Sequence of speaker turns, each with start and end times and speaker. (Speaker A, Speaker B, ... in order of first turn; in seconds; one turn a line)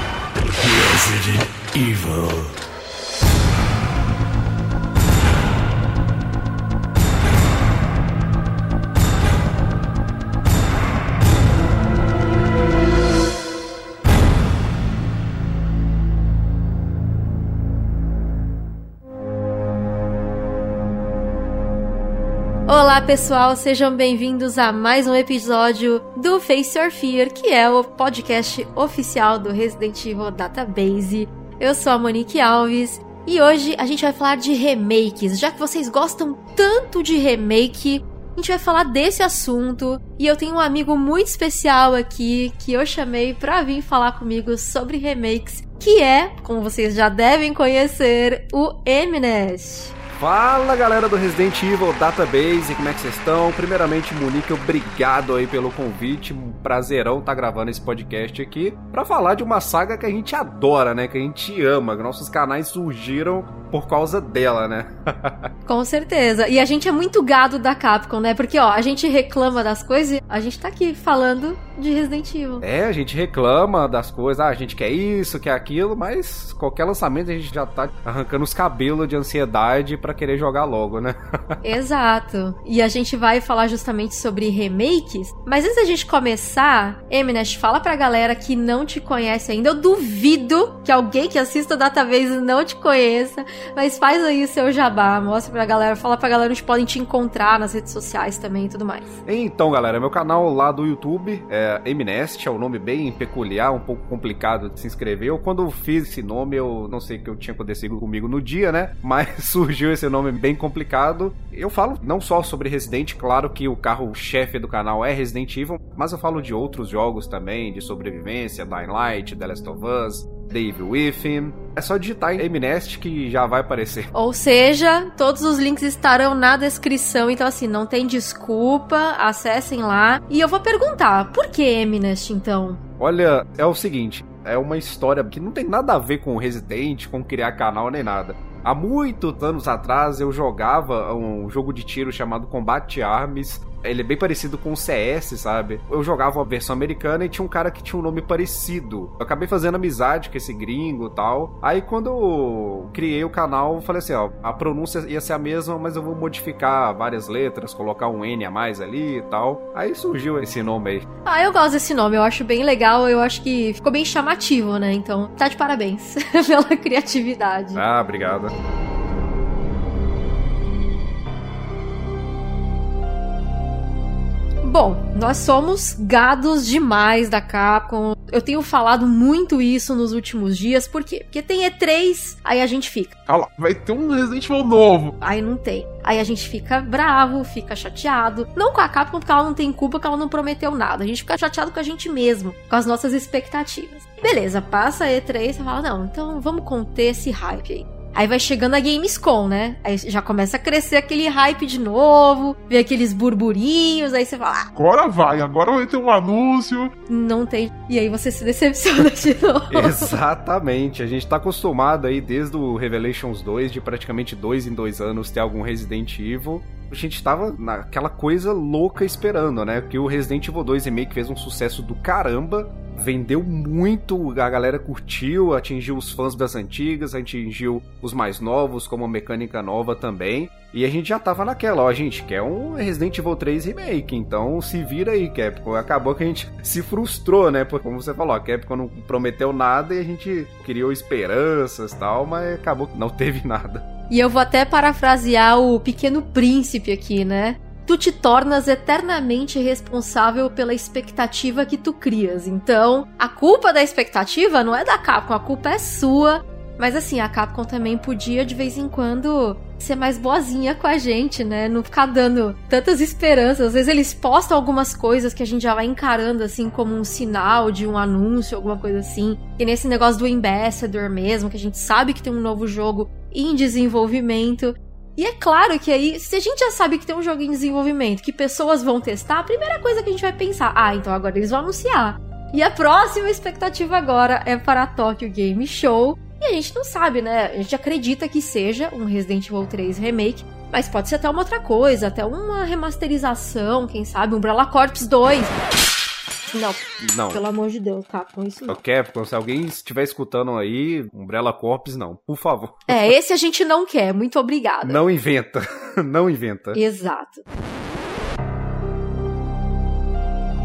Speaker A: 0.4-2.6
Speaker B: 22.7-49.9
Speaker C: 50.2-65.5
Speaker B: 65.7-72.6
Speaker C: 72.6-81.2
Speaker B: 81.6-99.0
Speaker C: 99.2-124.1
Speaker B: 124.1-132.8
Speaker C: 133.0-161.1
Speaker B: 161.2-167.8
Speaker C: 167.7-168.5
Speaker B: 174.6-183.1
Speaker D: 183.3-185.1
Speaker B: 185.2-204.7
Speaker D: 204.7-206.9
Speaker B: 207.1-210.1
Speaker C: 209.7-243.8
Speaker B: 244.1-295.5
Speaker B: 296.5-298.8
Speaker C: 297.0-297.4
Speaker C: 298.7-303.1
Speaker B: 302.9-305.0
Speaker C: 304.8-306.8
Speaker B: 306.7-307.4